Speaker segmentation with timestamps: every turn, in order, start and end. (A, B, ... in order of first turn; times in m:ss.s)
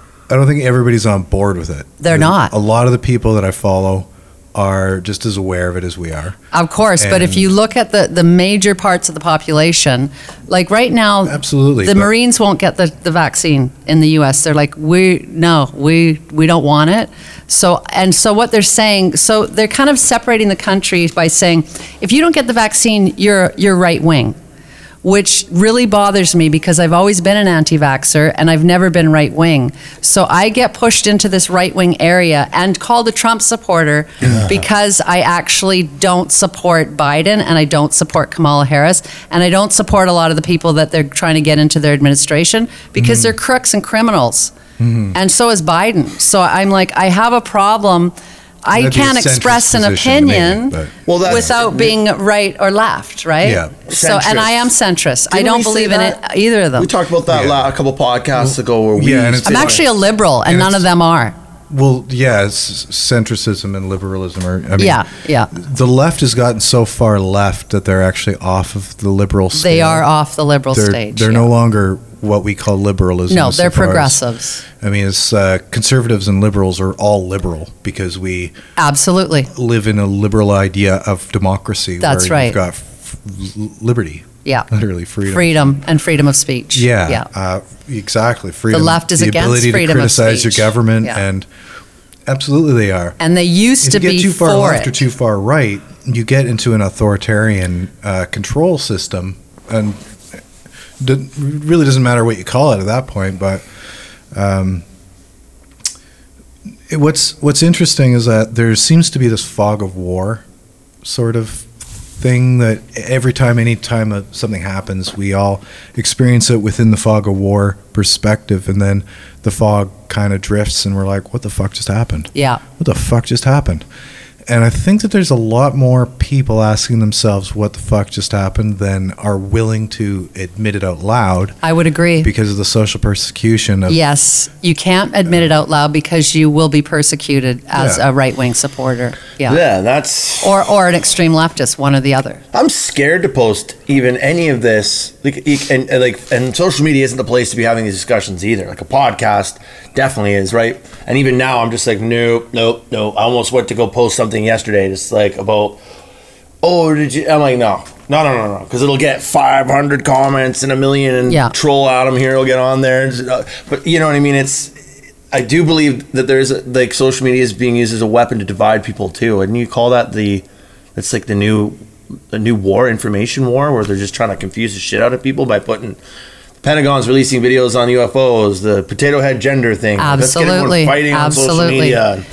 0:00.3-0:06.4 A
0:02.0-0:02.5 B
0:06.5-0:24.4 B
0:07.0-0:07.5 A
0:11.2-0:12.1 A
0:25.0-0:44.5 B
0:34.2-0:34.5 C
0:43.0-0:43.4 A
0:44.8-0:45.2 A
0:45.1-0:48.1 B
0:48.6-0:56.9 B
0:48.7-0:51.5 A
0:51.0-0:52.0 C
0:53.4-0:53.7 A
0:53.9-0:54.7 C
0:55.3-0:56.2 C
0:56.8-0:59.8 C
0:57.3-0:57.7 A
0:58.4-0:59.8 A
0:59.4-1:01.4 B
1:00.4-1:00.8 A
1:01.7-1:10.1 A
1:04.8-1:05.5 B
1:09.5-1:11.5 B
1:10.7-1:14.2 A
1:13.3-1:14.6 B
1:14.8-1:18.6 A
1:18.8-1:19.5 B
1:19.5-1:25.7 A
1:22.0-1:22.6 B
1:25.2-1:27.2 B
1:26.7-1:31.5 A
1:28.7-1:31.2 B
1:32.3-1:33.2 A
1:33.2-1:35.0 B
1:33.8-1:40.4 A
1:41.0-1:43.6 A
1:44.3-1:44.8 A
1:46.9-1:50.4 A
1:51.0-2:03.8 A
2:02.3-2:02.6 B
2:04.5-2:11.6 A
2:11.6-2:12.3 B
2:12.2-2:14.0 A
2:13.9-2:19.6 B
2:17.7-2:18.0 A
2:19.4-2:20.7 C
2:20.4-2:22.4 B
2:22.5-2:35.8 C
2:36.6-2:44.7 C
2:41.3-2:41.5 B
2:45.3-2:50.4 C
2:51.0-2:56.0 C
2:56.6-3:02.2 C
3:00.0-3:02.0 B